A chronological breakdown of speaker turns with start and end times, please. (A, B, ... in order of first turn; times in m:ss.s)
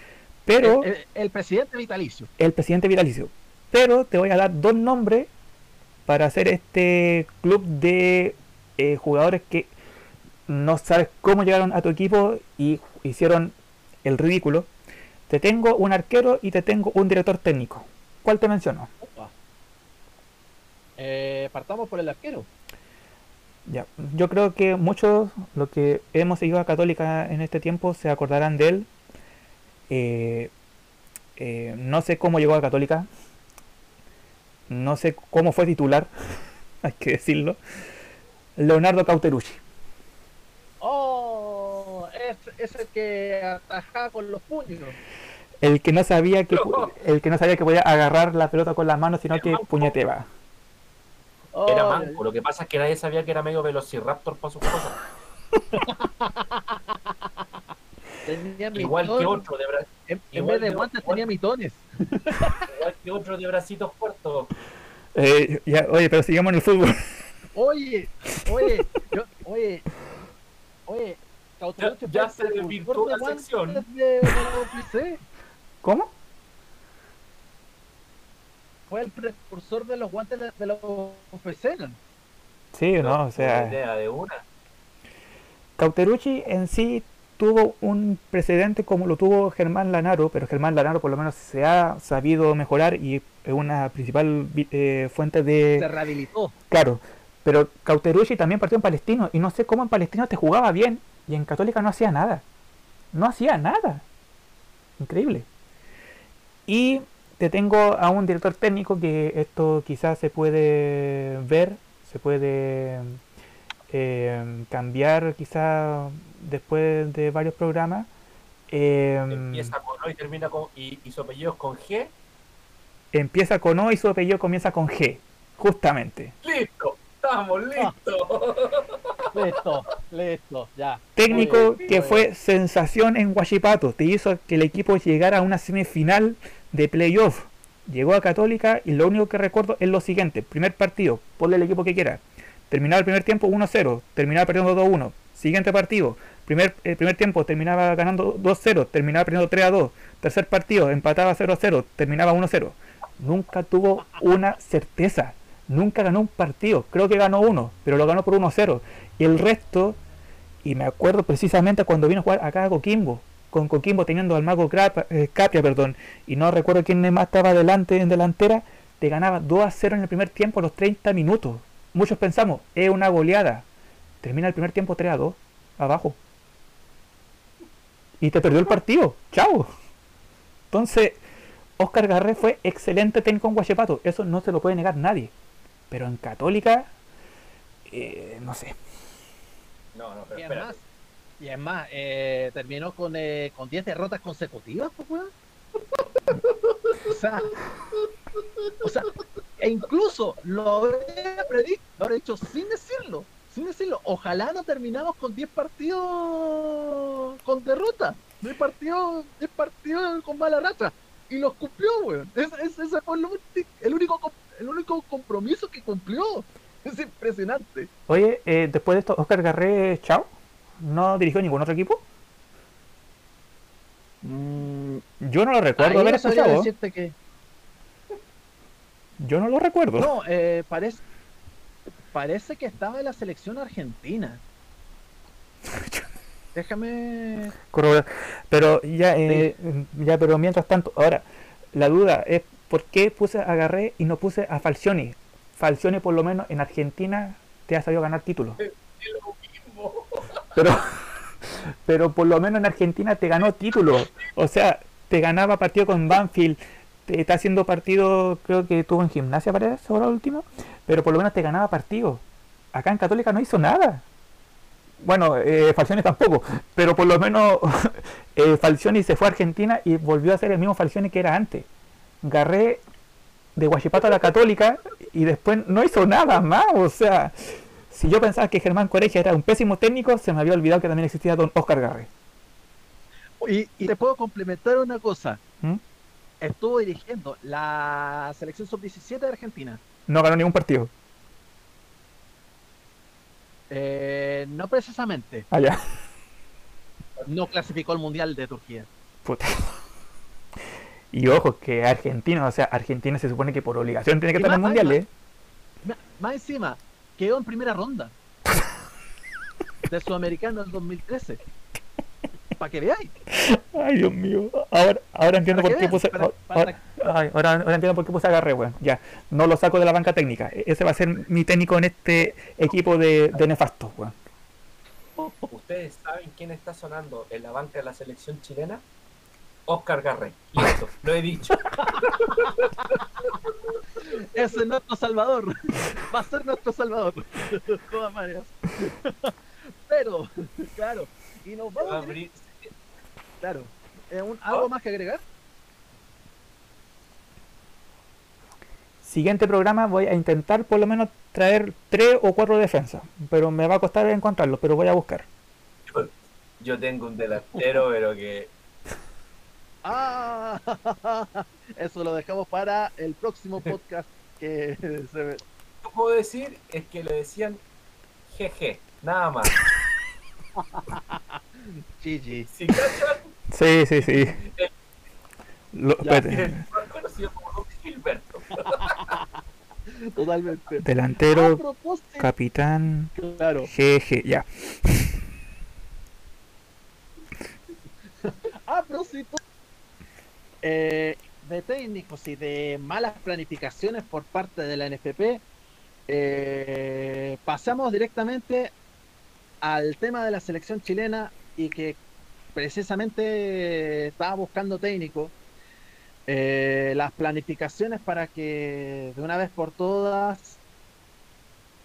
0:00.5-0:00.9 A
0:00.6-0:02.3 B
0:02.4-0:05.3 A
0:06.1-0:09.7 A
0:10.5-0:14.7 A
0:15.3-0:18.9 A
0:19.0-0:19.3 B
0:21.0-0:22.5 B
0:23.7-0:28.9 A
0:29.9-0:30.5 A
0:31.4-0:33.1 A
0:34.7-0:36.1 A
0:36.8-0:37.6 A
0:38.6-0:39.6 A
0:40.8-0:45.0 B
0:45.6-0:50.3 A
0:46.5-0:46.9 C
0:49.3-0:49.9 C
0:51.5-0:52.2 B
0:51.7-0:55.0 C
0:55.7-0:57.5 B
0:58.3-0:59.4 B
0:58.8-1:01.2 C
1:00.1-1:02.6 B
1:02.7-1:04.5 C
1:05.1-1:07.2 A
1:07.5-1:09.8 B
1:10.9-1:15.2 B
1:11.8-1:13.8 C
1:15.8-1:16.1 A
1:18.9-1:22.0 B
1:22.7-1:23.8 A
1:23.0-1:24.4 C
1:25.8-1:35.9 A
1:35.8-1:36.6 B
1:36.7-1:42.4 A
1:43.1-1:44.0 A
1:45.0-1:45.5 A
1:46.7-1:53.2 A
1:53.9-1:58.1 A
1:58.7-1:59.7 A
1:59.3-2:02.1 C
2:03.1-2:06.3 A
2:06.4-2:09.4 C
2:09.3-2:12.3 B
2:11.2-2:40.0 A
2:40.6-2:53.7 A
2:54.2-2:56.2 A
2:58.2-2:59.7 A
3:00.7-3:01.2 A
3:01.8-3:05.3 A
3:05.9-3:06.9 A
3:07.9-3:08.8 A
3:09.9-3:10.8 C
3:10.4-3:10.8 B
3:11.4-3:15.3 B
3:17.1-3:17.6 B
3:18.8-3:37.9 B
3:38.1-3:42.0 A
3:44.2-3:45.0 B
3:45.2-3:46.7 A
3:45.8-3:47.1 B
3:49.2-3:50.1 A
3:50.0-3:51.0 B
3:52.1-3:54.4 B
3:55.7-3:56.0 A
3:56.6-3:57.5 B
3:57.7-4:08.6 A
4:08.6-4:10.5 C
4:10.6-4:24.1 A
4:25.0-4:31.7 A
4:32.2-4:32.8 A
4:33.6-4:42.1 A
4:43.4-4:45.4 B
4:46.4-4:49.8 B
4:50.1-4:50.9 A
4:53.7-4:55.5 B
4:55.5-4:55.8 A
4:57.3-4:58.9 B
4:59.2-4:59.8 A
5:01.1-5:05.1 A
5:04.4-5:05.0 B
5:05.8-5:08.1 B
5:09.9-5:11.4 B
5:12.6-5:13.1 B
5:13.3-5:24.1 A
5:15.3-5:16.8 B
5:25.2-5:25.5 B
5:25.5-5:28.8 C
5:29.7-5:33.5 C
5:34.0-5:42.2 B
5:41.8-5:42.7 C
5:43.4-5:45.2 B
5:49.0-5:55.3 A
5:55.9-5:58.5 C
5:59.8-6:05.4 B
6:05.8-6:07.6 C
6:08.3-6:09.6 C
6:10.6-6:12.5 B
6:12.5-6:13.3 C
6:13.5-6:14.4 A
6:14.4-6:14.7 C
6:15.7-6:16.6 A
6:16.2-6:19.2 C
6:18.7-6:22.3 B
6:20.8-6:21.6 A
6:22.2-6:23.1 A
6:23.1-6:23.7 B
6:23.7-6:25.1 A
6:28.2-6:29.4 B
6:30.6-6:35.4 B
6:36.1-6:38.7 B
6:39.6-6:42.0 B
6:42.6-6:45.3 B
6:46.3-6:50.6 B